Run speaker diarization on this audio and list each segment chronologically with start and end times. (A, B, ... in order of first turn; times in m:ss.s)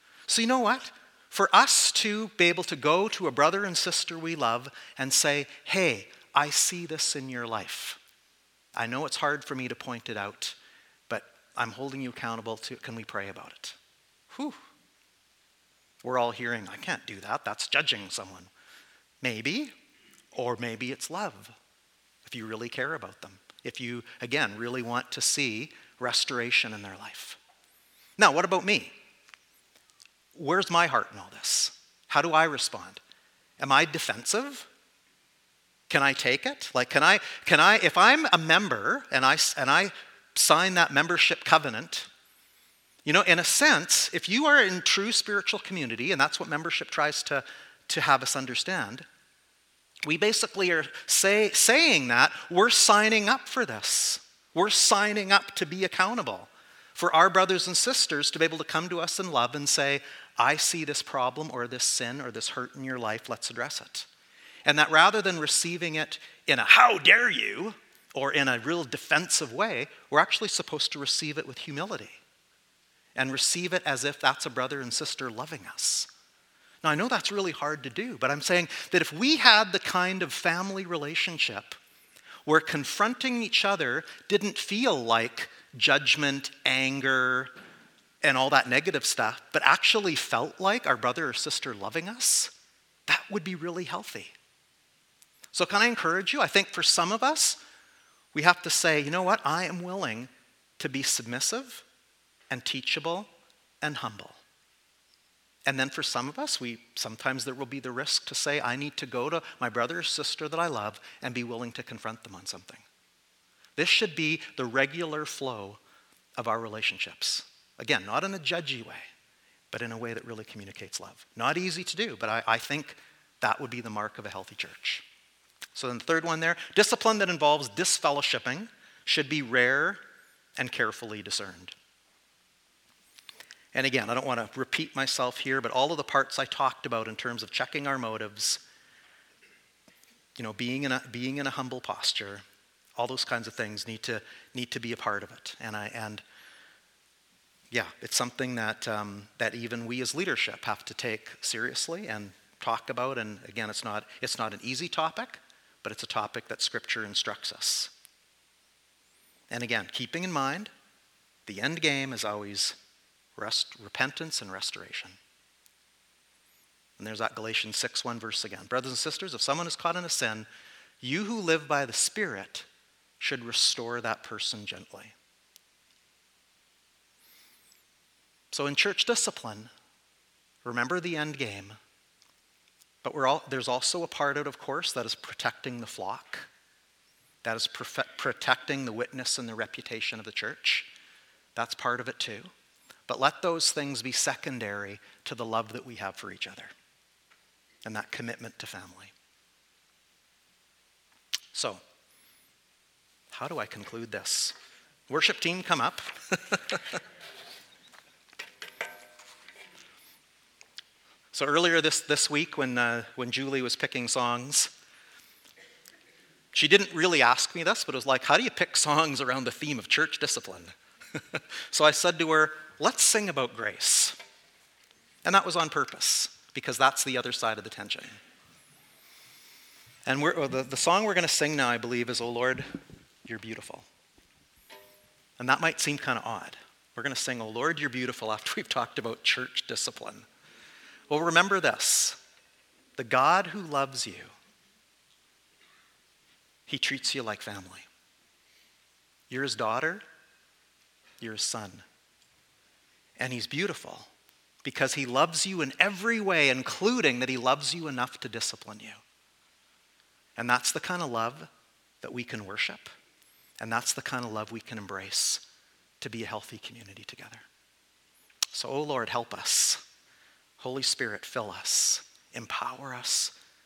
0:00.3-0:08.0 A
0:08.8-0:10.6 A
0:11.1-0:13.8 A
0:14.3-0:14.6 A
0:16.0-0:18.5 A
0:19.2-0:19.7 A
0:20.3-0:21.5 A
0:22.2-0:27.4 A
0:28.2-0:28.9 A
0:30.3-0:33.0 A
0:33.6-0:34.7 A
0:35.9-0:42.1 A
0:43.0-0:49.0 A
0:50.0-1:04.1 A
1:04.6-1:12.2 A
1:13.1-1:16.1 A
1:16.8-1:21.8 A
1:22.4-1:27.5 A
1:28.2-1:32.5 A
1:33.1-1:34.3 A
1:35.5-1:37.6 A
1:38.3-1:41.8 A
1:42.5-1:43.3 A
1:43.8-1:44.4 A
1:45.6-1:52.8 A
1:53.8-1:55.8 A
1:56.4-1:59.0 A
1:59.7-2:05.0 A
2:05.7-2:10.0 A
2:10.6-2:11.7 A
2:13.7-2:18.6 A
2:20.4-2:22.4 A
2:23.0-2:26.2 A
2:27.7-2:37.9 A
2:39.5-2:40.7 A
2:41.4-2:42.8 A
2:43.4-2:45.2 A
2:47.0-2:50.4 A
2:51.0-2:52.6 A
2:53.2-2:55.1 A
2:58.5-2:59.7 A
3:00.6-3:01.8 A
3:03.0-3:06.5 A
3:07.4-3:10.9 A
3:11.5-3:12.5 A
3:13.1-3:16.7 A
3:17.8-3:19.1 A
3:21.5-3:21.8 A
3:23.3-3:24.5 A
3:25.1-3:26.8 A
3:31.3-3:34.7 A
3:36.5-3:44.1 A
3:45.2-3:48.1 A
3:50.0-3:52.7 A
3:53.2-3:53.8 A
3:55.4-4:00.2 A
4:01.1-4:02.2 A
4:03.0-4:04.3 A
4:06.7-4:07.8 A
4:09.3-4:10.0 A
4:11.2-4:11.8 A
4:13.2-4:14.1 A
4:14.6-4:19.0 A
4:20.4-4:21.5 A
4:22.0-4:22.9 A
4:23.6-4:25.4 A
4:26.0-4:27.4 A
4:28.5-4:29.8 A
4:30.6-4:33.3 A